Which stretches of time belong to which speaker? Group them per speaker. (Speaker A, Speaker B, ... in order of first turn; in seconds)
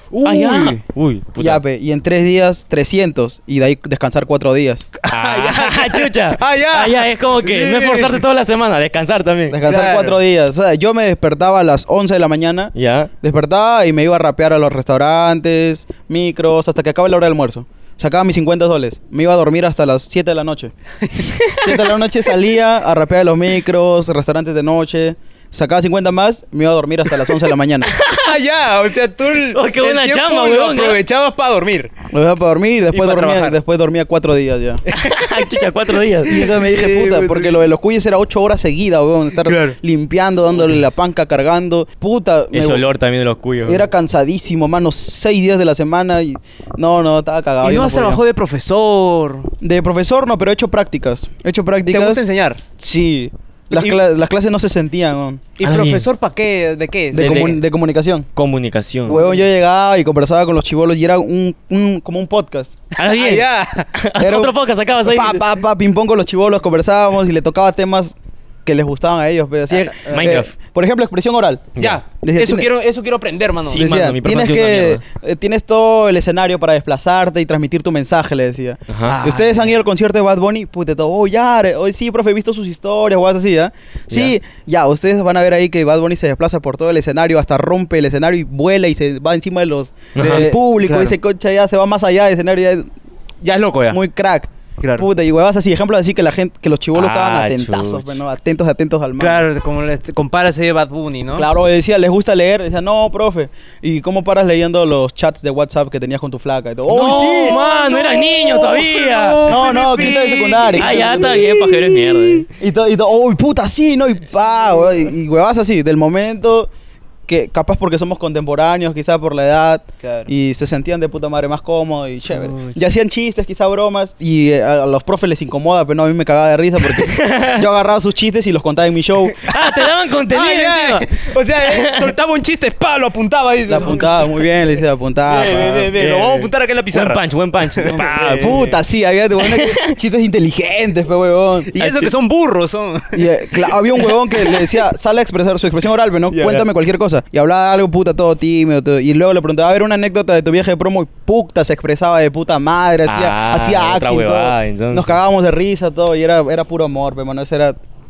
Speaker A: 0.1-0.8, 5.0-8.2, 9.7-10.2, 21.0-21.9, 28.1-31.9, 32.9-33.6, 34.9-35.5, 36.3-37.6, 39.4-39.8, 47.6-49.5, 51.9-52.6, 53.7-54.0, 55.6-57.4, 59.1-59.4, 63.0-63.9, 69.7-70.5, 71.8-74.1, 79.0-79.7, 90.2-91.2, 93.4-94.0, 94.8-95.1, 99.2-101.5, 107.0-111.5, 120.0-120.3, 129.4-134.2, 135.3-139.4, 141.7-144.6, 146.3-146.6
Speaker B: 0.2-1.6, 5.1-9.8, 12.8-13.1, 27.9-28.2, 29.5-31.0, 35.0-36.4, 42.5-43.9, 55.6-56.1, 57.2-57.6, 58.4-59.2, 63.0-65.4, 70.1-70.5, 73.7-75.0, 78.9-79.4, 90.2-90.5, 97.0-98.1, 106.9-112.5, 122.3-122.8, 126.9-127.7, 129.4-132.1, 135.9-138.6, 139.4-139.9, 141.8-142.1, 153.1-155.2
Speaker C: 1.4-4.9, 9.5-20.7, 21.6-27.9, 32.1-34.8, 36.3-42.8, 43.7-48.2, 49.6-52.3, 52.8-55.4, 57.1-58.3, 59.1-62.8, 64.2-72.7, 73.8-92.9, 93.9-99.5, 101.4-107.6, 109.5-116.7, 117.3-129.4, 133.7-135.9, 137.9-141.7, 143.1-157.8